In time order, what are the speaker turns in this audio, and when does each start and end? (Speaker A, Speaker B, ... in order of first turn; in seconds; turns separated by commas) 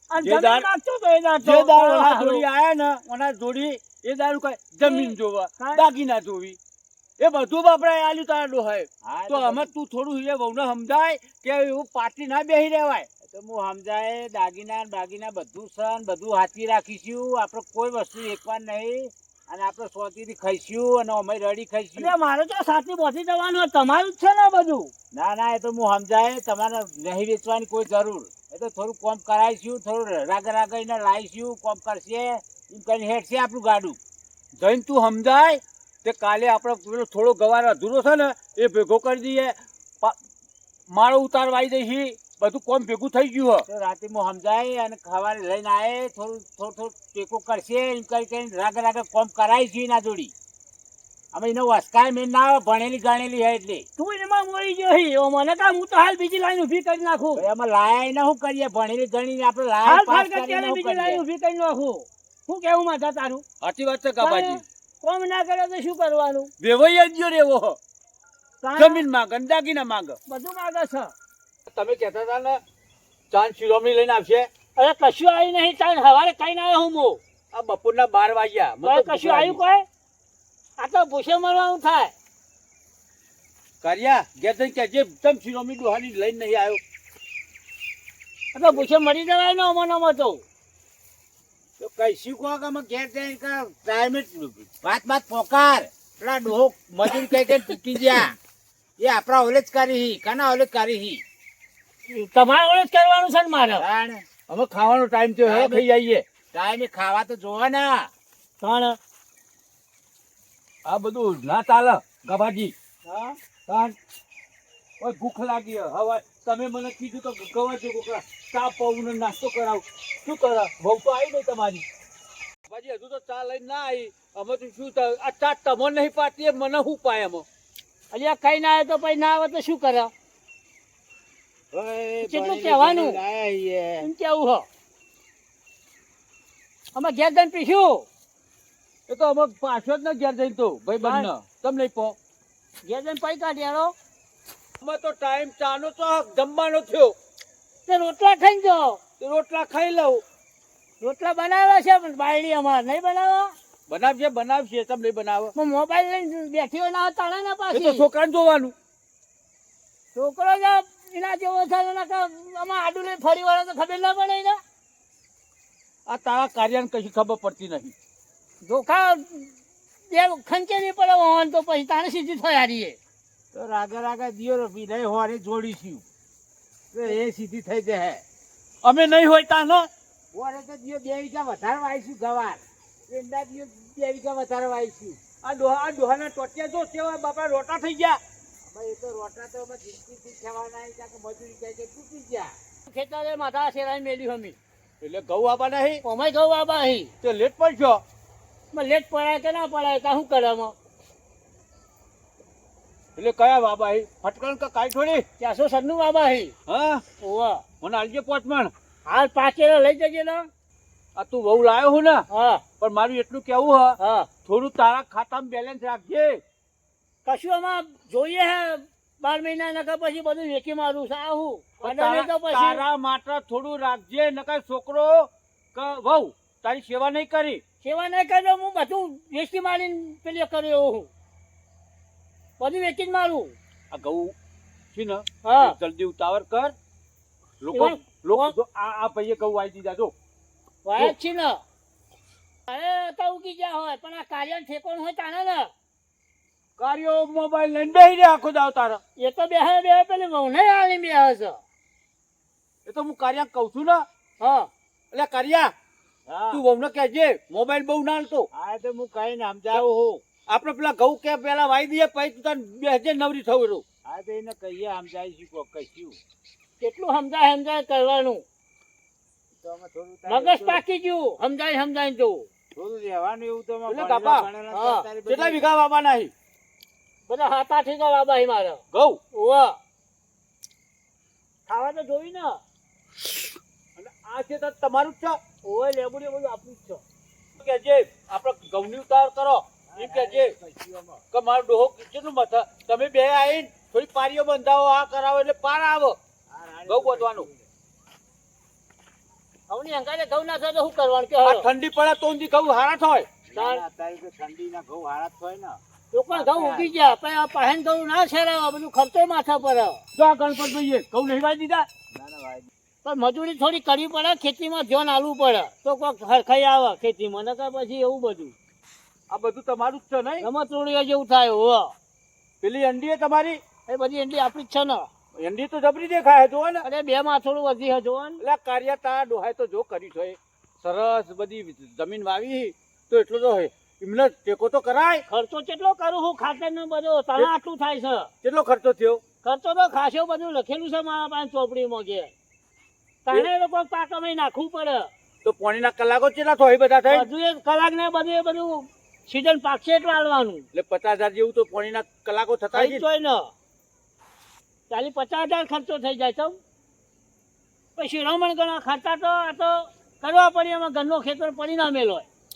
Speaker A: 0.1-2.5, Speaker B: 0.2-0.7, Speaker B: 1.4-6.6, Speaker A: 4.8-5.8, Speaker B: 7.2-13.1, Speaker C: 9.0-9.7, Speaker C: 13.2-22.1, Speaker A: 22.0-24.9, Speaker C: 25.1-34.0, Speaker B: 34.6-40.2, Speaker B: 40.9-43.7, Speaker C: 43.7-50.3, Speaker C: 51.3-53.9, Speaker A: 54.0-57.5, Speaker C: 57.4-61.2, Speaker A: 59.8-63.4, Speaker B: 63.6-64.6, Speaker A: 64.2-66.5, Speaker B: 66.6-67.8, Speaker A: 68.6-69.0, Speaker B: 68.8-70.2, Speaker A: 70.3-71.1, Speaker B: 71.7-72.6, Speaker B: 73.3-74.5, Speaker A: 74.8-77.2, Speaker B: 77.5-79.6, Speaker A: 78.8-79.9, Speaker A: 80.8-82.1, Speaker B: 83.8-86.8, Speaker A: 88.5-90.4, Speaker C: 91.8-98.3, Speaker C: 99.0-101.2, Speaker A: 102.1-103.9, Speaker C: 103.8-104.3, Speaker B: 104.5-106.2, Speaker C: 105.5-105.9, Speaker C: 106.5-108.1, Speaker A: 108.6-109.0, Speaker B: 110.8-112.7, Speaker A: 113.1-113.4, Speaker B: 113.7-114.0, Speaker B: 115.0-121.8, Speaker B: 122.7-127.5, Speaker A: 128.1-130.1, Speaker C: 131.7-134.1, Speaker A: 132.2-133.2, Speaker A: 134.0-134.7, Speaker A: 136.9-138.1, Speaker B: 139.1-142.2, Speaker A: 141.0-141.3, Speaker A: 142.8-143.9, Speaker B: 144.8-147.2, Speaker A: 147.9-149.0, Speaker B: 149.2-150.2, Speaker A: 151.0-153.5, Speaker B: 153.9-155.5, Speaker A: 155.6-158.1, Speaker B: 157.7-158.7, Speaker A: 160.2-164.6, Speaker B: 166.1-167.9, Speaker A: 168.6-169.6, Speaker A: 170.1-173.0, Speaker C: 173.5-176.1, Speaker C: 176.9-178.2, Speaker B: 178.8-179.9, Speaker C: 180.3-185.2, Speaker B: 185.4-188.2, Speaker C: 188.7-192.5, Speaker A: 192.9-194.6, Speaker B: 195.0-196.0, Speaker A: 196.0-197.1, Speaker B: 197.2-198.0, Speaker A: 198.7-200.8, Speaker B: 203.2-205.2, Speaker A: 205.4-206.5, Speaker B: 206.7-207.0, Speaker A: 207.2-207.6, Speaker B: 207.8-208.7, Speaker A: 209.1-210.5, Speaker B: 211.2-212.2, Speaker A: 212.3-212.6, Speaker B: 212.8-216.4, Speaker A: 214.0-214.3, Speaker A: 217.2-222.8, Speaker B: 221.8-227.6, Speaker A: 227.8-231.1, Speaker A: 232.6-233.6, Speaker B: 233.9-234.3, Speaker B: 234.9-236.8, Speaker A: 235.4-235.8, Speaker B: 237.6-240.1, Speaker A: 237.7-238.5, Speaker A: 240.8-241.6, Speaker A: 242.7-245.7, Speaker B: 246.8-249.0, Speaker A: 249.2-251.6, Speaker B: 252.9-254.1, Speaker A: 254.4-254.7, Speaker B: 255.1-255.7, Speaker C: 256.3-256.6, Speaker B: 256.5-258.5, Speaker C: 258.5-260.2, Speaker B: 260.5-263.8, Speaker C: 264.1-266.2, Speaker A: 266.8-268.4, Speaker C: 269.6-270.8, Speaker A: 270.3-272.5, Speaker C: 272.8-275.6, Speaker B: 273.9-274.5, Speaker A: 274.7-275.1, Speaker B: 275.3-276.3, Speaker A: 277.3-278.8, Speaker B: 278.9-279.2, Speaker A: 279.3-279.8, Speaker A: 281.7-282.6, Speaker B: 284.0-285.4, Speaker A: 285.6-287.0, Speaker B: 287.6-290.6, Speaker C: 289.9-291.2, Speaker B: 291.3-296.2, Speaker C: 296.5-297.7, Speaker B: 296.9-297.5, Speaker A: 299.7-301.7, Speaker B: 301.4-303.3, Speaker C: 303.5-305.8, Speaker A: 303.6-303.8, Speaker A: 306.1-310.0, Speaker C: 306.3-306.9, Speaker B: 310.1-311.9, Speaker C: 312.1-312.7, Speaker A: 313.0-318.6, Speaker B: 319.3-320.5, Speaker A: 320.4-321.9, Speaker B: 322.6-323.6, Speaker A: 323.9-325.1, Speaker B: 325.4-326.9, Speaker A: 326.8-328.4, Speaker B: 328.4-335.2, Speaker A: 335.3-338.3, Speaker B: 338.4-339.2, Speaker A: 339.4-342.3, Speaker A: 343.3-345.1, Speaker B: 345.4-347.3, Speaker A: 347.1-350.7, Speaker B: 350.7-353.0, Speaker A: 352.7-353.5, Speaker A: 354.9-356.6, Speaker A: 358.0-362.3